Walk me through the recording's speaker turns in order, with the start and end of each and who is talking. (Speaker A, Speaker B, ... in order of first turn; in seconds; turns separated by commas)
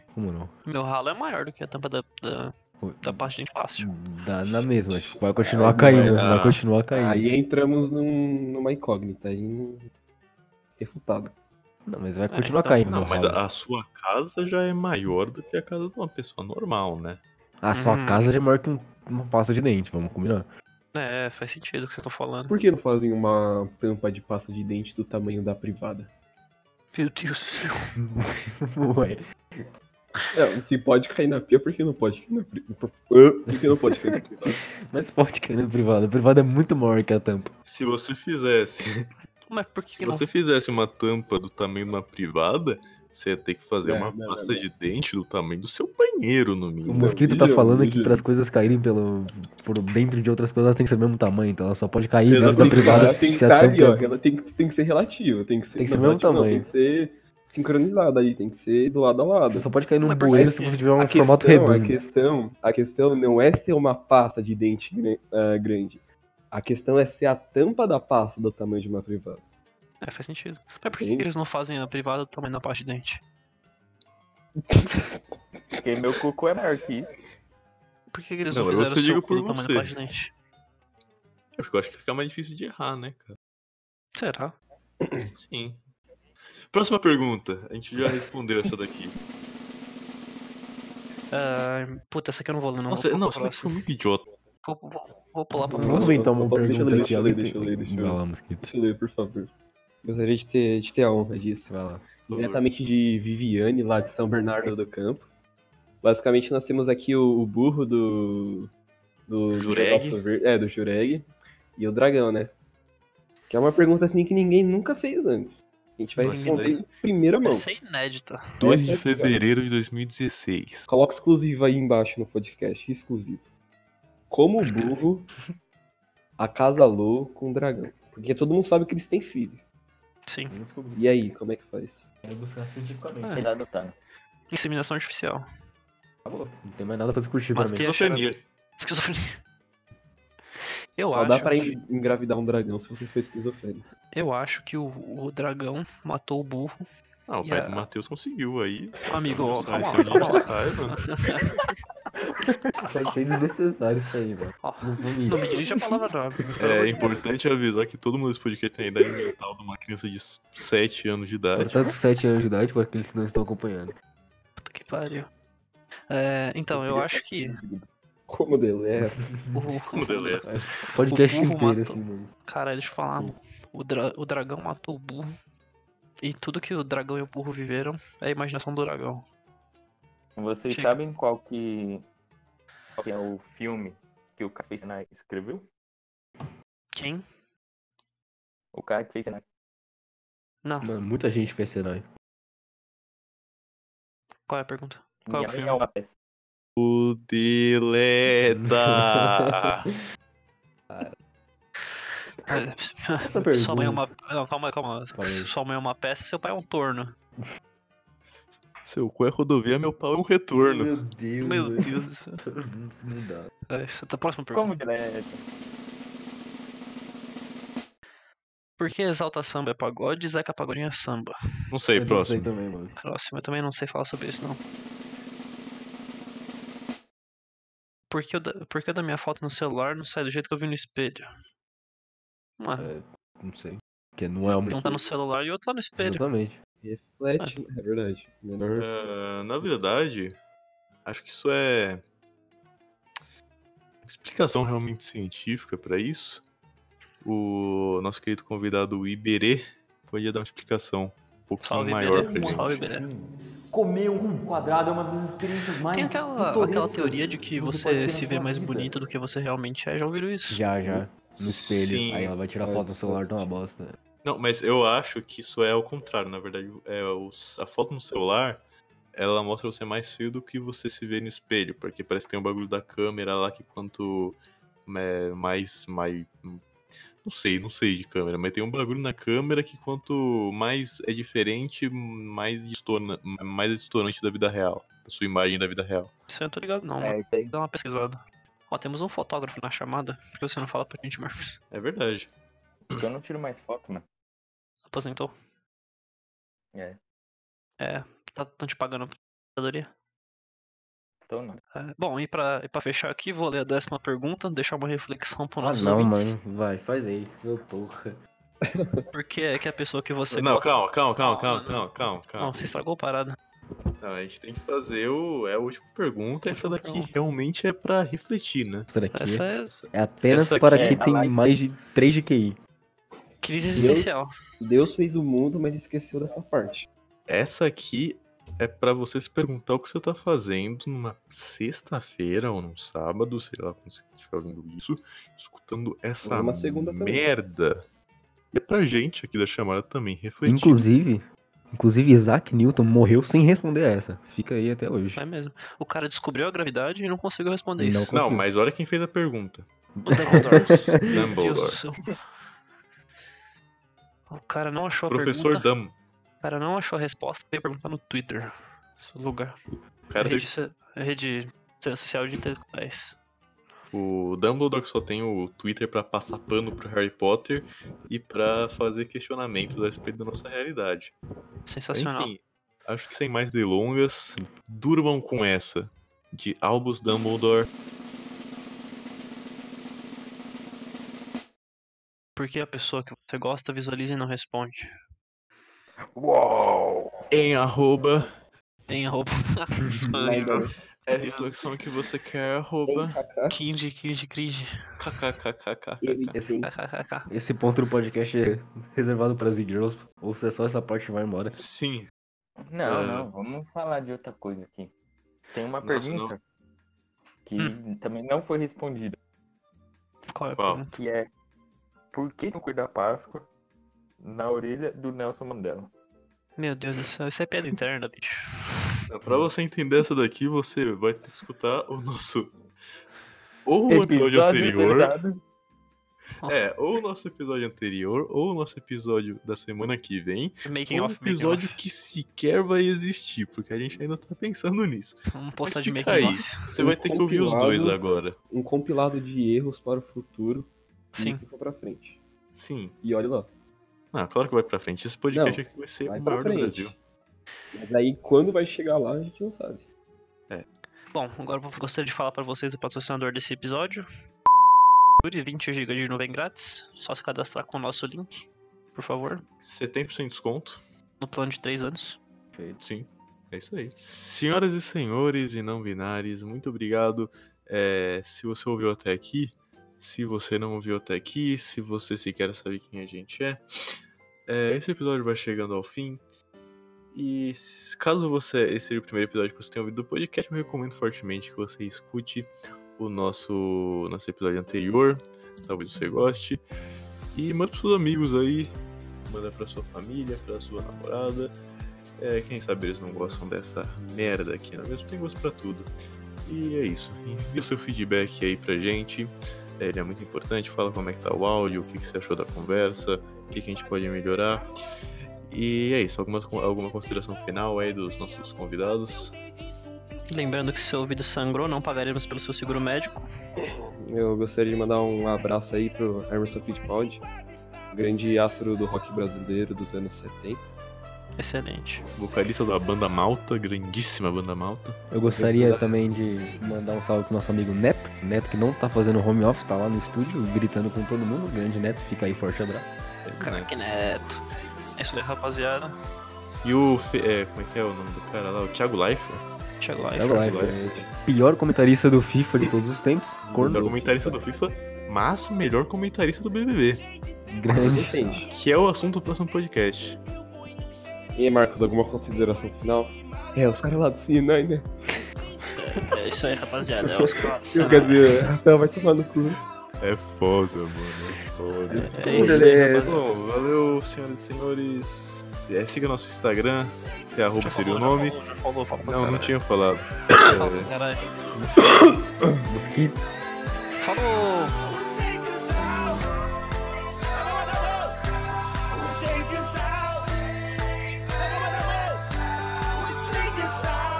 Speaker A: 0.1-0.5, Speaker B: 0.7-3.9, Speaker A: 2.8-3.2, Speaker A: 3.8-7.3, Speaker C: 4.9-5.2, Speaker D: 5.5-6.3, Speaker C: 5.7-6.6, Speaker D: 6.9-9.9, Speaker D: 10.8-11.3, Speaker A: 11.8-13.4, Speaker B: 12.3-12.8, Speaker C: 12.9-17.2, Speaker A: 17.6-20.5, Speaker B: 17.7-18.3, Speaker B: 20.9-22.6, Speaker D: 22.5-26.1, Speaker B: 26.9-27.9, Speaker A: 28.0-29.7, Speaker D: 30.3-34.5, Speaker A: 33.5-34.1, Speaker A: 34.9-37.5, Speaker C: 37.6-39.1, Speaker B: 39.5-40.3, Speaker C: 39.9-47.2, Speaker D: 43.8-44.6, Speaker A: 46.9-54.2, Speaker D: 46.9-48.2, Speaker C: 52.3-53.4, Speaker D: 52.3-59.6, Speaker A: 55.8-56.7, Speaker A: 59.5-62.0, Speaker B: 60.0-60.8, Speaker D: 60.3-69.4, Speaker B: 70.0-73.2, Speaker D: 70.9-71.3, Speaker D: 74.7-75.0, Speaker E: 75.8-77.2, Speaker B: 78.1-80.3, Speaker C: 78.5-79.9, Speaker C: 81.5-83.3, Speaker B: 84.2-84.6, Speaker D: 85.0-85.3, Speaker C: 85.2-85.8, Speaker C: 86.7-89.2, Speaker B: 91.3-93.8, Speaker C: 92.9-94.2, Speaker B: 94.6-96.3, Speaker D: 95.7-99.5, Speaker A: 95.7-98.7, Speaker D: 100.0-101.7, Speaker A: 101.7-102.1, Speaker C: 102.3-102.6, Speaker D: 102.3-105.3, Speaker D: 106.0-108.7, Speaker D: 109.3-112.5, Speaker C: 109.5-110.2, Speaker D: 113.5-117.7, Speaker C: 116.2-116.8, Speaker B: 116.2-116.8, Speaker B: 117.4-118.4, Speaker D: 118.6-119.4, Speaker C: 118.6-120.9, Speaker D: 120.9-123.4, Speaker D: 124.3-125.3, Speaker B: 124.6-125.0, Speaker D: 126.4-129.6, Speaker B: 130.2-130.5, Speaker A: 130.5-131.1, Speaker D: 130.9-132.0, Speaker A: 132.2-133.5, Speaker E: 133.3-133.9, Speaker B: 134.5-135.4, Speaker A: 136.2-137.8, Speaker B: 137.5-139.3, Speaker C: 137.7-138.4, Speaker B: 140.9-141.8, Speaker D: 141.0-143.8, Speaker B: 144.1-146.8, Speaker C: 147.3-151.0, Speaker B: 147.4-147.8, Speaker B: 149.1-151.5, Speaker A: 152.8-155.5, Speaker B: 154.6-157.1, Speaker C: 156.6-161.8, Speaker A: 161.6-163.9, Speaker B: 164.6-165.3, Speaker B: 166.1-167.6, Speaker D: 166.7-169.3, Speaker A: 169.0-169.6, Speaker B: 169.5-170.5, Speaker C: 169.9-170.5, Speaker A: 170.5-172.3, Speaker B: 171.0-175.3, Speaker B: 176.2-179.2, Speaker E: 180.4-182.0, Speaker B: 180.7-180.9, Speaker E: 183.0-185.7, Speaker B: 186.9-187.2, Speaker E: 188.7-189.4, Speaker B: 190.6-190.9, Speaker A: 190.8-192.1, Speaker B: 194.5-195.8, Speaker E: 195.3-196.1, Speaker C: 196.8-199.9, Speaker A: 198.5-199.5, Speaker B: 201.9-207.1, Speaker A: 203.2-204.0, Speaker A: 205.1-205.5, Speaker C: 208.8-210.9, Speaker A: 210.6-211.9, Speaker B: 211.4-212.4, Speaker A: 212.4-213.5, Speaker B: 213.7-214.7, Speaker E: 214.5-215.4, Speaker B: 218.8-221.3, Speaker C: 221.7-222.5, Speaker A: 221.9-222.9, Speaker B: 223.0-224.6, Speaker B: 228.1-231.2, Speaker B: 232.6-232.9, Speaker A: 232.8-235.0, Speaker B: 234.6-236.2, Speaker A: 236.0-236.6, Speaker D: 236.8-238.9, Speaker C: 238.8-240.4, Speaker C: 241.0-242.0, Speaker C: 244.0-246.4, Speaker C: 247.2-252.7, Speaker B: 251.6-253.0, Speaker F: 252.1-258.9, Speaker B: 255.9-260.6, Speaker A: 260.5-263.9, Speaker C: 261.3-262.4, Speaker D: 262.6-263.5, Speaker C: 264.2-268.6, Speaker C: 269.1-276.6, Speaker C: 277.2-286.1, Speaker B: 286.3-288.2, Speaker E: 287.0-287.5, Speaker B: 288.7-291.6, Speaker C: 291.7-292.3, Speaker E: 292.9-294.0, Speaker B: 294.9-295.3, Speaker E: 296.7-297.0, Speaker B: 297.8-299.9, Speaker E: 301.3-301.6, Speaker B: 301.7-306.4, Speaker A: 305.6-308.2, Speaker D: 308.6-309.1, Speaker B: 309.1-311.8, Speaker C: 310.3-312.6, Speaker B: 312.4-313.4, Speaker C: 314.0-318.9, Speaker B: 316.5-317.1, Speaker A: 318.9-322.6, Speaker B: 319.1-319.7, Speaker C: 319.7-321.0, Speaker E: 320.7-321.3, Speaker B: 323.4-324.3, Speaker D: 323.7-326.9, Speaker C: 327.3-337.8, Speaker D: 336.2-337.2, Speaker C: 338.5-340.8, Speaker A: 340.4-345.2, Speaker B: 345.1-348.1, Speaker A: 347.8-348.4, Speaker C: 348.1-349.6, Speaker A: 350.0-351.0, Speaker B: 350.0-352.1, Speaker C: 350.6-351.8, Speaker B: 354.3-355.7, Speaker C: 355.1-355.9, Speaker B: 356.4-359.6, Speaker C: 360.1-360.5, Speaker B: 360.2-363.2, Speaker C: 363.9-371.1, Speaker B: 371.6-372.3, Speaker C: 371.9-377.7, Speaker B: 382.4-384.9, Speaker E: 386.1-387.2, Speaker C: 387.3-388.3, Speaker B: 388.9-391.7, Speaker A: 389.8-390.1, Speaker D: 390.2-390.7, Speaker C: 391.1-393.2, Speaker D: 392.9-393.6, Speaker B: 393.5-394.7, Speaker C: 395.0-396.3, Speaker D: 396.0-396.7, Speaker A: 396.3-396.7, Speaker B: 396.6-397.3, Speaker A: 397.3-401.6, Speaker C: 401.5-402.1, Speaker E: 402.6-404.9, Speaker C: 402.8-403.3, Speaker E: 405.5-406.4, Speaker C: 405.8-406.3, Speaker E: 407.4-409.2, Speaker B: 410.2-411.0, Speaker C: 410.6-410.8, Speaker E: 410.9-411.3, Speaker E: 412.1-413.5, Speaker E: 414.2-415.9, Speaker B: 416.6-418.9, Speaker C: 419.1-422.5, Speaker C: 423.6-425.1, Speaker E: 423.9-425.4, Speaker C: 426.4-438.4, Speaker B: 430.6-431.8, Speaker B: 435.3-436.5, Speaker D: 436.7-438.0, Speaker D: 438.5-442.2, Speaker B: 441.1-441.4, Speaker C: 442.5-442.9, Speaker D: 443.0-443.5, Speaker C: 444.1-446.9, Speaker D: 445.3-447.0, Speaker D: 447.7-449.8, Speaker B: 451.1-454.0, Speaker B: 455.2-459.4, Speaker C: 459.6-460.8, Speaker B: 461.2-462.2, Speaker C: 462.8-473.6, Speaker C: 474.5-476.2, Speaker C: 477.1-486.6, Speaker C: 487.3-488.7, Speaker C: 489.2-491.5, Speaker C: 492.2-495.9, Speaker C: 496.4-504.7, Speaker C: 505.5-509.3, Speaker B: 510.3-513.3, Speaker D: 513.6-517.3, Speaker D: 517.9-520.6, Speaker B: 521.4-522.0, Speaker C: 522.2-525.9, Speaker A: 525.1-532.9, Speaker C: 533.2-533.7, Speaker B: 533.4-536.0, Speaker C: 536.6-539.4, Speaker B: 539.8-540.6, Speaker A: 540.2-543.9, Speaker C: 540.4-540.7, Speaker D: 540.7-541.0, Speaker D: 543.5-544.4, Speaker C: 543.6-547.0, Speaker A: 547.5-548.4, Speaker D: 547.7-548.5, Speaker B: 547.8-548.4, Speaker C: 548.5-550.2, Speaker D: 551.4-554.9, Speaker B: 555.7-558.4, Speaker D: 557.1-559.6, Speaker C: 560.0-568.4, Speaker D: 561.9-562.7, Speaker B: 562.1-563.2, Speaker A: 562.2-563.0, Speaker B: 567.6-569.5, Speaker C: 569.0-570.9, Speaker B: 570.5-571.3, Speaker A: 571.6-573.2, Speaker B: 574.0-574.9